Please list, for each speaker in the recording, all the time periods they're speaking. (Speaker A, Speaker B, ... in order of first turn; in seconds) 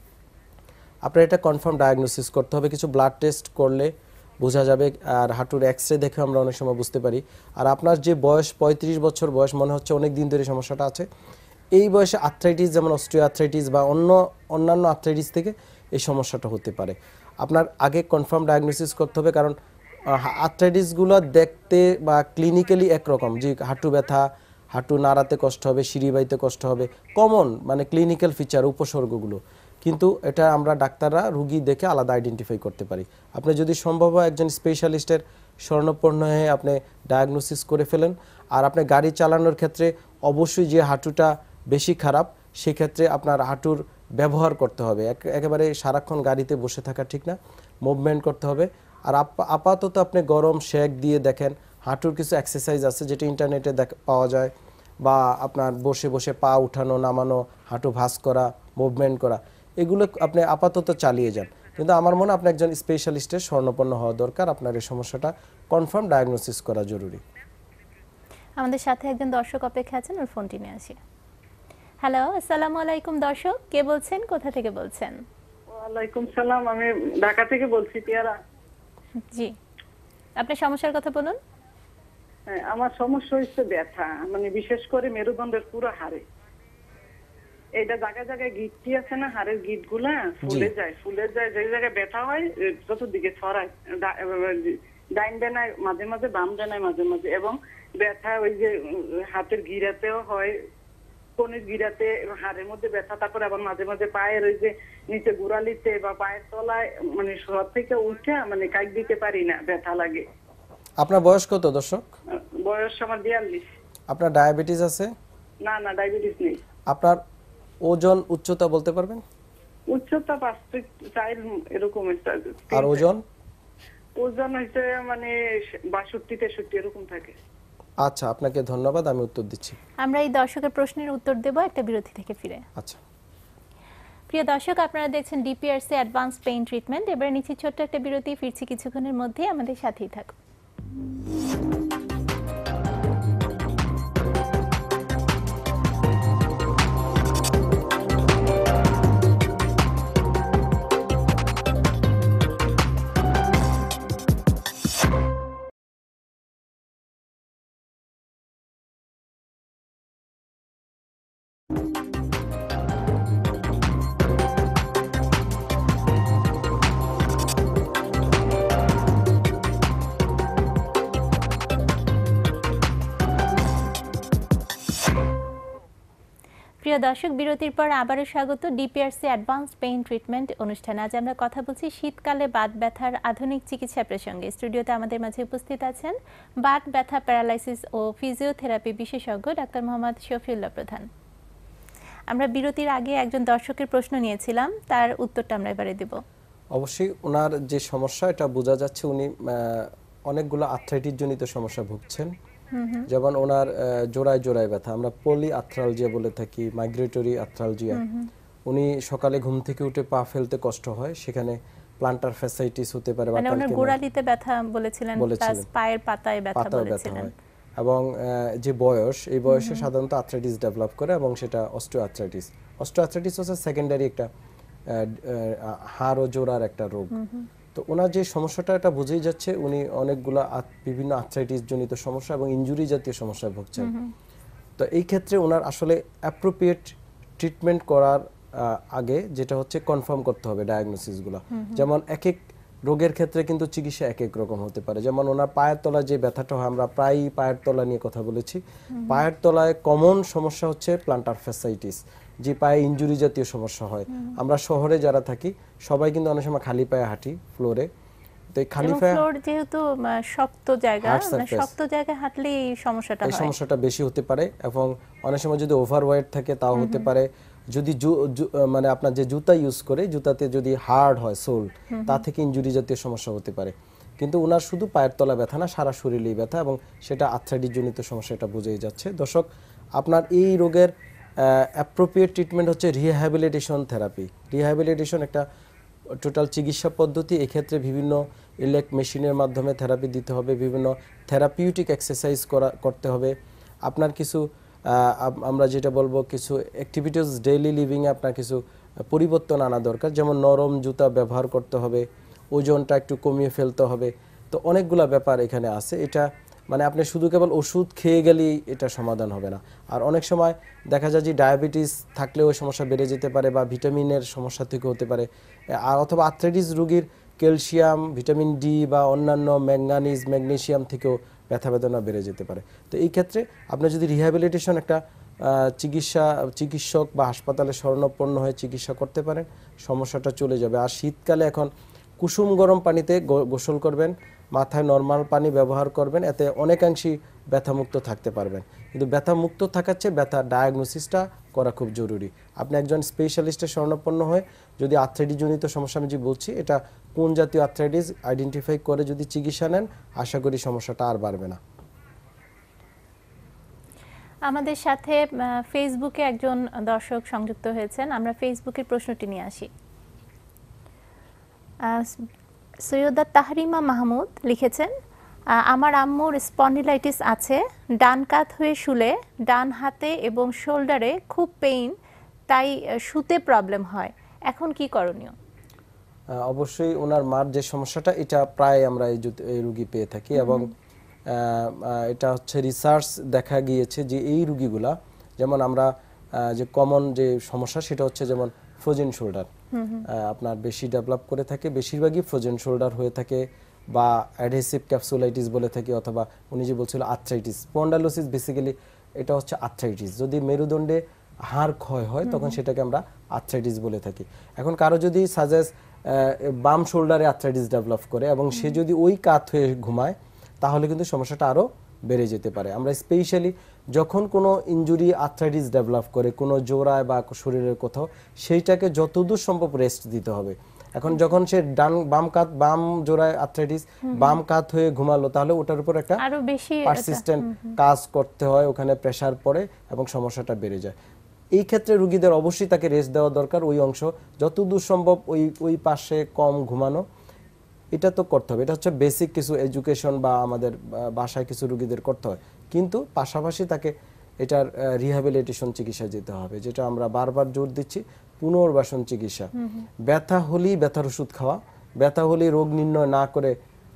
Speaker A: 1.1-11.1, 11.7-19.6, 20.1-67.2, 90.4-90.7, 111.0-112.1, 114.1-115.1, 116.9-117.2, 117.8-119.2, 122.7-123.2, 128.0-129.8, 132.8-133.0, 196.8-202.3, 203.1-208.0, 208.7-214.0, 215.2-215.7, 216.6-224.3, 224.9-227.2, 227.7-233.9, 234.8-257.9, 258.5-259.2, 261.0-261.7, 263.2-285.5, 286.1-351.6, 376.3-380.7, 381.3-389.5, 390.1-426.2, 426.9-430.9, 431.6-437.0, 437.9-449.5, 450.0-453.6
Speaker B: 68.6-71.0, 72.0-75.2, 79.3-79.5, 80.4-81.4, 130.0-132.7, 134.3-140.3, 176.8-191.1, 192.3-196.2, 202.7-203.1, 207.9-208.3, 213.4-217.3, 219.5-219.9, 227.1-227.5, 233.8-234.1, 241.5-241.8, 248.9-249.2, 258.8-263.5, 266.7-267.1, 271.9-272.2, 354.4-359.7, 361.8-362.3, 362.8-364.9, 365.6-371.9, 372.5-375.3, 380.4-380.7, 389.7-390.1, 402.3-402.6, 424.1-424.3, 426.2-427.8, 449.6-449.9
Speaker C: 75.7-78.3, 82.5-86.2, 87.8-100.5, 101.4-110.3, 112.3-113.7, 115.6-116.6, 119.9-123.0, 124.2-125.3, 125.9-127.3